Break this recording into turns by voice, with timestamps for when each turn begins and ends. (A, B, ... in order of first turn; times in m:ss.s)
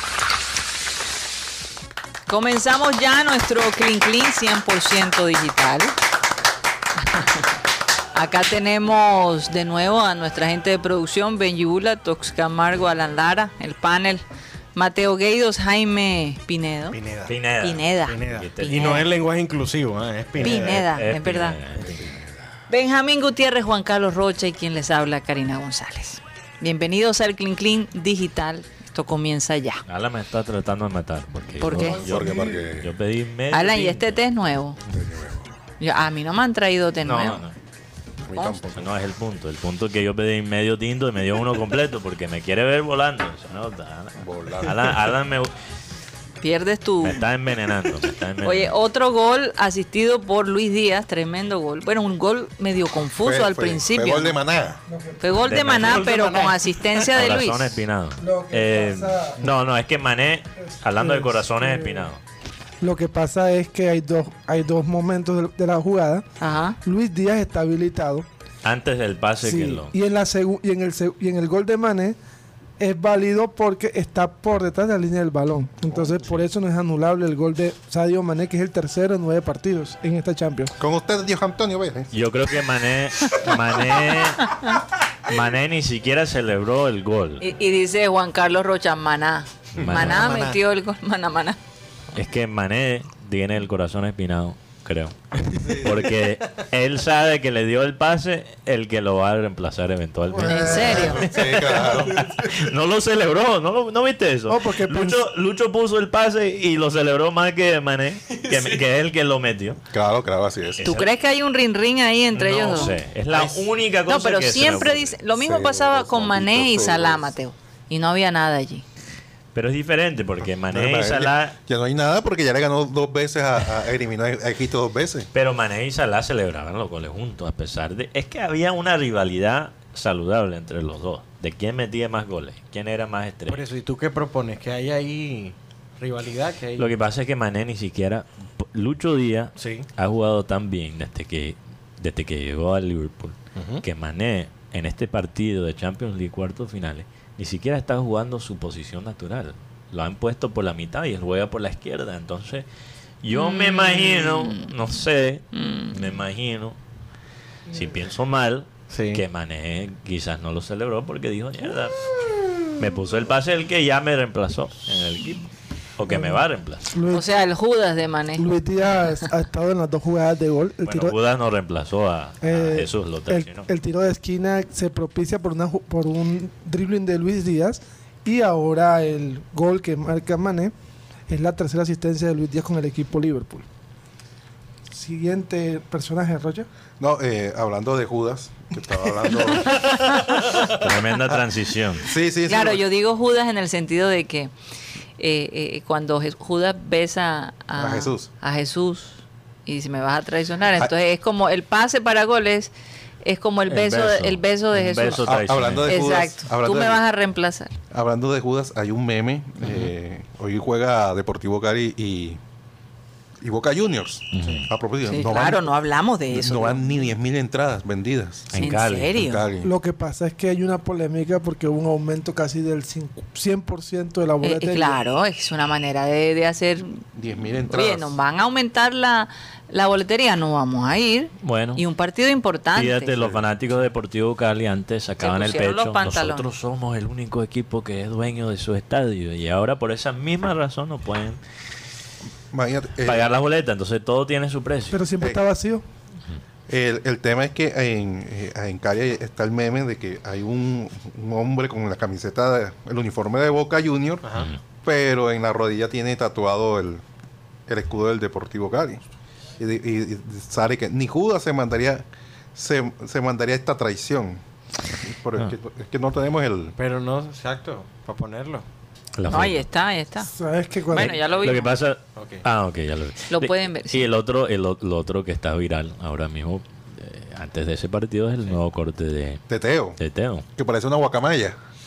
0:02.3-0:05.9 A
0:07.0-0:07.5 A
0:08.1-0:17.0 A
0:16.9-0:17.3 B
0:17.3-0:19.0 C
0:17.6-0:19.0 A
0:18.1-0:20.8 B
0:20.4-0:22.2 C
0:20.4-0:21.6 A
0:22.7-0:29.8 A
0:29.9-0:34.2 C
0:31.6-0:32.0 A
0:31.9-0:32.6 D
0:32.0-0:32.9 E
0:33.5-0:34.8 A
0:34.9-0:35.5 E
0:35.8-0:37.4 A
0:37.0-0:37.5 C
0:38.2-0:38.9 E
0:38.7-0:45.5 C
0:44.2-0:44.9 E
0:46.4-0:47.2 A
0:47.0-0:48.7 C
0:48.4-0:54.4 A
0:53.2-0:54.8 E
0:54.9-0:55.3 D
0:55.2-0:57.8 A
0:55.4-0:56.1 C
0:55.7-0:56.6 B
0:57.1-1:02.2 C
0:58.2-0:59.4 D
1:00.6-1:02.1 D
1:02.8-1:06.2 D
1:06.4-1:06.8 A
1:06.8-1:08.3 D
1:08.6-1:09.9 C
1:09.4-1:12.2 D
1:12.8-1:20.7 D
1:20.8-1:22.1 E
1:22.1-1:24.6 C
1:24.5-1:24.8 A
1:25.3-1:27.4 C
1:27.4-1:31.6 A
1:29.8-1:30.3 C
1:29.8-1:30.6 B
1:32.1-1:49.8 C
1:40.3-1:42.3 E
1:40.5-1:41.2 A
1:44.5-1:45.2 D
1:49.9-1:50.9 E
1:50.8-1:51.1 C
1:50.8-1:52.9 A
1:52.3-1:55.2 C
1:53.3-1:53.6 B
1:54.1-1:58.8 A
1:55.4-1:57.3 E
1:59.5-2:01.5 C
2:00.7-2:05.3 E
2:05.3-2:13.6 C
2:13.5-2:16.9 B
2:16.8-2:32.6 C
2:19.6-2:19.9 B
2:23.5-2:23.8 B
2:33.2-2:36.8 C
2:33.3-2:34.7 A
2:35.5-2:36.0 A
2:37.7-2:42.0 C
2:38.9-2:39.2 B
2:42.7-2:45.4 C
2:46.0-2:46.9 C
2:46.1-2:47.3 D
2:47.1-2:48.5 A
2:48.4-2:51.1 D
2:50.8-2:53.7 C
2:52.4-3:00.7 D
3:01.3-3:03.6 D
3:04.9-3:06.7 D
3:07.0-3:09.9 E
3:10.6-3:12.1 C
3:12.0-3:12.8 E
3:12.5-3:14.5 A
3:15.2-3:22.7 A
3:17.8-3:18.3 E
3:23.2-3:25.2 A
3:23.7-3:25.9 C
3:25.2-3:27.0 E
3:25.9-3:27.7 A
3:27.9-3:32.4 E
3:33.4-3:35.7 E
3:34.3-3:34.7 C
3:35.0-3:37.1 A
3:36.3-3:38.6 E
3:38.5-3:39.1 C
3:38.6-3:39.4 A
3:39.1-3:39.7 E
3:39.6-3:45.0 D
3:44.4-3:47.0 A
3:47.1-3:48.1 E
3:47.7-3:53.2 A
3:51.4-3:51.8 C
3:52.7-4:01.4 C
3:55.2-3:56.5 A
4:02.5-4:03.3 E
4:03.0-4:05.0 C
4:04.9-4:05.8 D
4:06.7-4:14.2 E
4:14.2-4:14.5 B
4:14.8-4:17.0 E
4:17.7-4:19.0 E
4:19.6-4:24.4 E
4:25.0-4:26.7 E
4:26.8-4:28.6 B
4:29.2-4:29.6 C
4:29.3-4:30.3 A
4:30.3-4:31.2 D
4:30.9-4:31.7 A
4:31.0-4:39.4 C
4:32.2-4:32.4 B
4:33.3-4:34.0 A
4:39.5-4:40.0 E
4:40.0-4:40.4 C
4:40.6-4:41.6 E